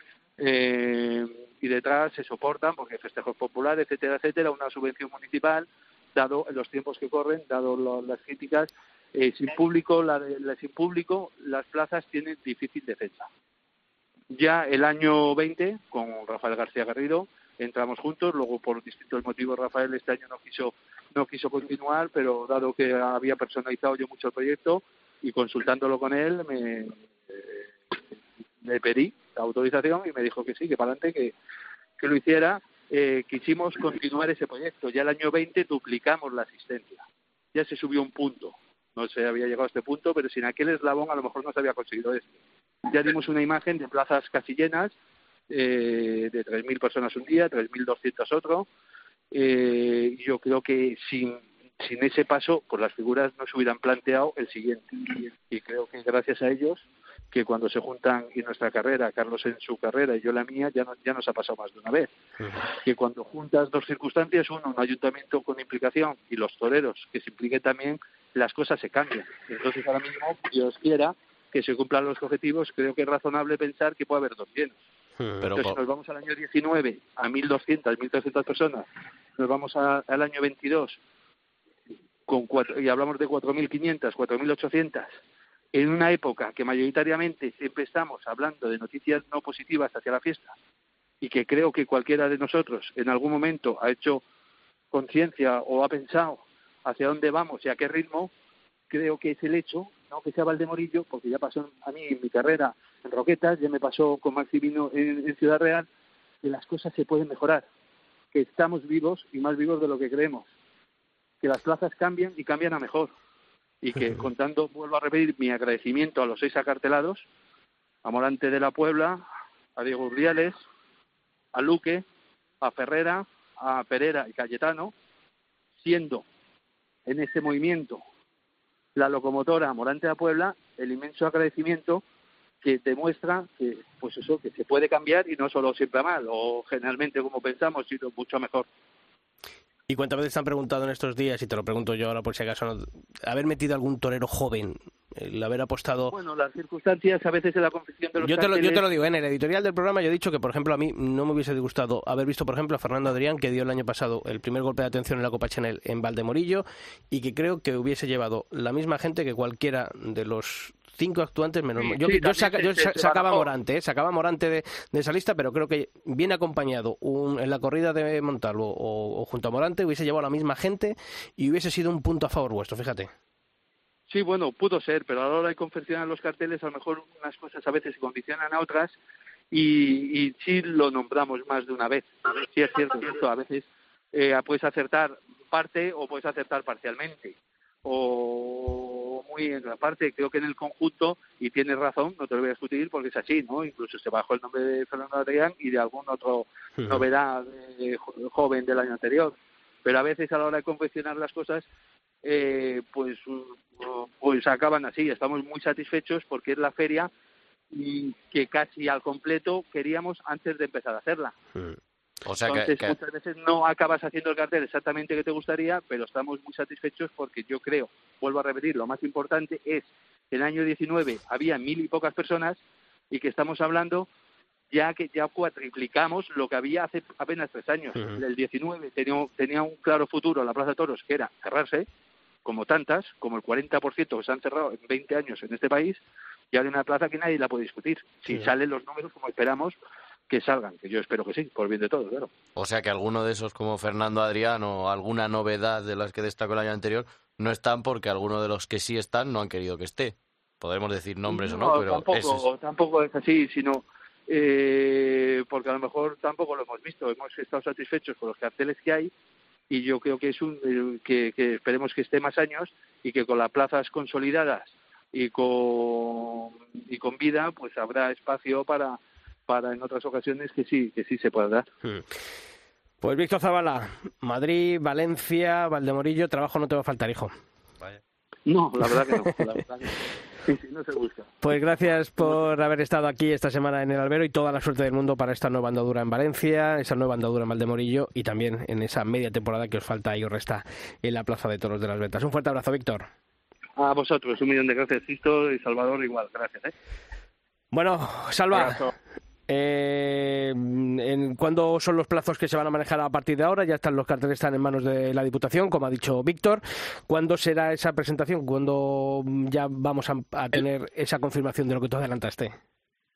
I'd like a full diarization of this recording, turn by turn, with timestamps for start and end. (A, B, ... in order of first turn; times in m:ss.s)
0:00.4-0:13.3 A
0:14.3-0:28.0 A
0:28.6-0:31.3 A
0:32.0-0:37.0 A
0:37.5-0:42.3 A
0:42.8-0:44.9 A
0:45.5-0:48.7 A
0:49.3-1:02.1 A
1:02.8-1:14.8 A
1:15.2-1:15.5 B
1:15.4-1:15.8 C
1:15.6-1:21.0 A
1:22.3-1:25.2 A
1:25.7-1:30.5 A
1:31.2-1:34.2 A
1:34.9-1:38.3 A
1:38.9-1:45.9 A
1:46.4-1:47.6 A
1:48.3-1:50.5 A
1:51.4-1:53.1 A
1:53.8-1:57.2 A
1:58.0-2:00.6 A
2:01.5-2:02.0 A
2:02.6-2:04.9 A
2:05.8-2:06.2 A
2:07.1-2:08.0 A
2:09.0-2:12.0 A
2:12.6-2:18.6 A
2:19.9-2:26.1 B
2:26.1-2:28.8 A
2:28.2-2:53.1 B
2:41.8-2:43.5 A
2:54.1-2:59.0 A
2:59.5-3:21.7 A
3:16.8-3:17.0 B
3:22.2-3:27.1 A
3:27.7-3:31.3 A
3:32.2-3:33.0 C
3:32.4-3:42.6 A
3:43.1-3:44.1 A
3:44.7-3:51.9 A
3:52.4-3:56.0 A
3:56.5-3:59.8 A
4:00.3-4:02.3 A
4:02.6-4:12.4 C
4:11.3-4:19.1 A
4:19.7-4:31.6 A
4:33.0-4:37.3 B
4:38.4-4:41.3 A
4:41.4-4:53.1 B
4:53.8-4:56.7 A
4:57.7-4:58.8 B
4:59.5-5:12.5 B